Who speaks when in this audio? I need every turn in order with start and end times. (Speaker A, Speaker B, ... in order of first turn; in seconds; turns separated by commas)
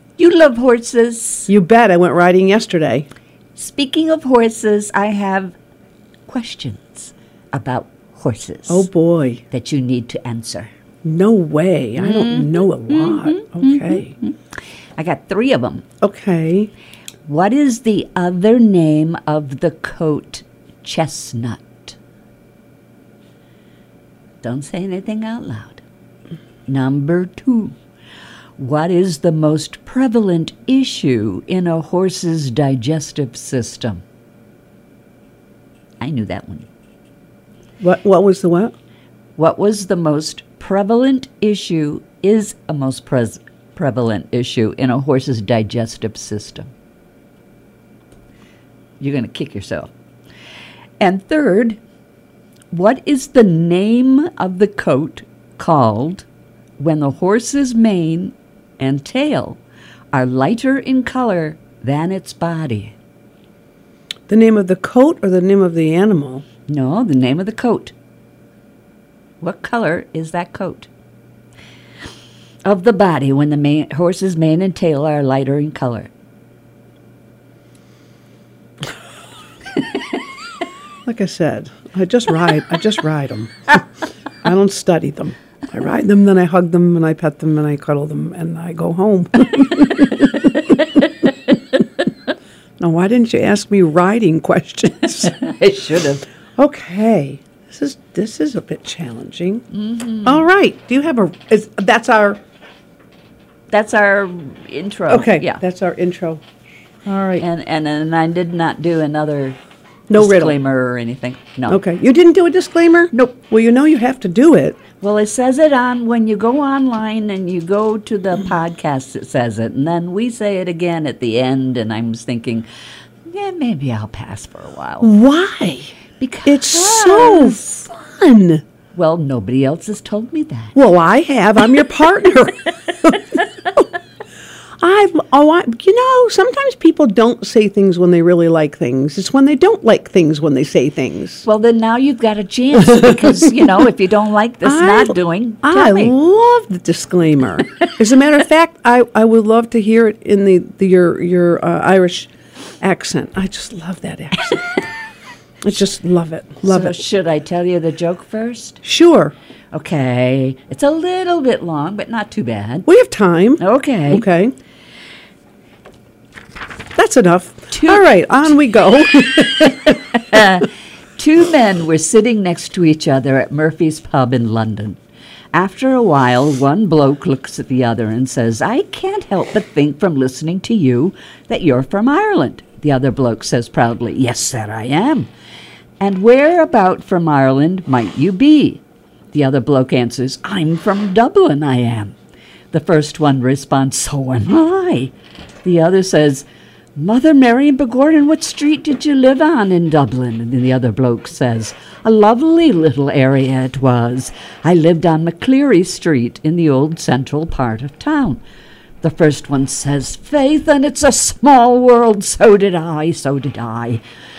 Speaker A: 0.2-1.5, Speaker B: 1.5-3.1, Speaker A: 3.5-5.5, Speaker A: 6.3-8.9, Speaker B: 8.7-9.4, Speaker A: 9.5-10.7, Speaker B: 11.0-14.1, Speaker A: 12.0-14.3, Speaker A: 15.0-15.8, Speaker B: 16.0-16.7, Speaker A: 17.2-21.9, Speaker A: 24.4-25.8, Speaker A: 26.7-27.8, Speaker A: 28.6-34.0, Speaker A: 36.0-36.7, Speaker B: 37.8-38.7, Speaker A: 39.4-46.7, Speaker A: 49.0-49.9, Speaker A: 51.0-51.8, Speaker A: 52.7-56.2, Speaker A: 56.8-59.6, Speaker A: 60.1-62.9, Speaker B: 64.3-66.4, Speaker A: 66.7-67.9, Speaker A: 69.4-70.9, Speaker A: 72.6-76.1, Speaker B: 81.0-83.8, Speaker B: 84.4-91.0, Speaker B: 92.8-95.4, Speaker A: 95.2-96.2, Speaker B: 96.6-99.6, Speaker A: 99.7-100.5, Speaker B: 100.2-102.4, Speaker A: 103.7-105.6, Speaker B: 105.1-106.4, Speaker B: 107.0-107.4, Speaker A: 107.4-109.6, Speaker B: 110.1-110.5, Speaker A: 110.2-111.8, Speaker B: 111.7-114.8, Speaker A: 113.1-113.4, Speaker A: 115.0-122.7, Speaker A: 123.3-125.1, Speaker B: 125.0-125.9, Speaker A: 126.2-127.6, Speaker B: 126.5-128.6, Speaker A: 128.9-130.7, Speaker B: 130.7-133.2, Speaker B: 134.8-141.4, Speaker A: 141.4-146.1, Speaker B: 142.7-143.8, Speaker B: 144.6-152.3, Speaker B: 152.8-154.7, Speaker B: 155.6-157.0, Speaker A: 156.6-158.8, Speaker B: 158.8-159.3, Speaker A: 159.7-162.9, Speaker B: 162.8-164.5, Speaker A: 163.6-164.2, Speaker B: 166.9-170.3, Speaker A: 167.7-168.0, Speaker A: 170.3-175.0, Speaker A: 175.5-185.3, Speaker A: 186.0-192.1, Speaker A: 192.7-196.4, Speaker A: 197.0-208.4, Speaker A: 209.0-214.0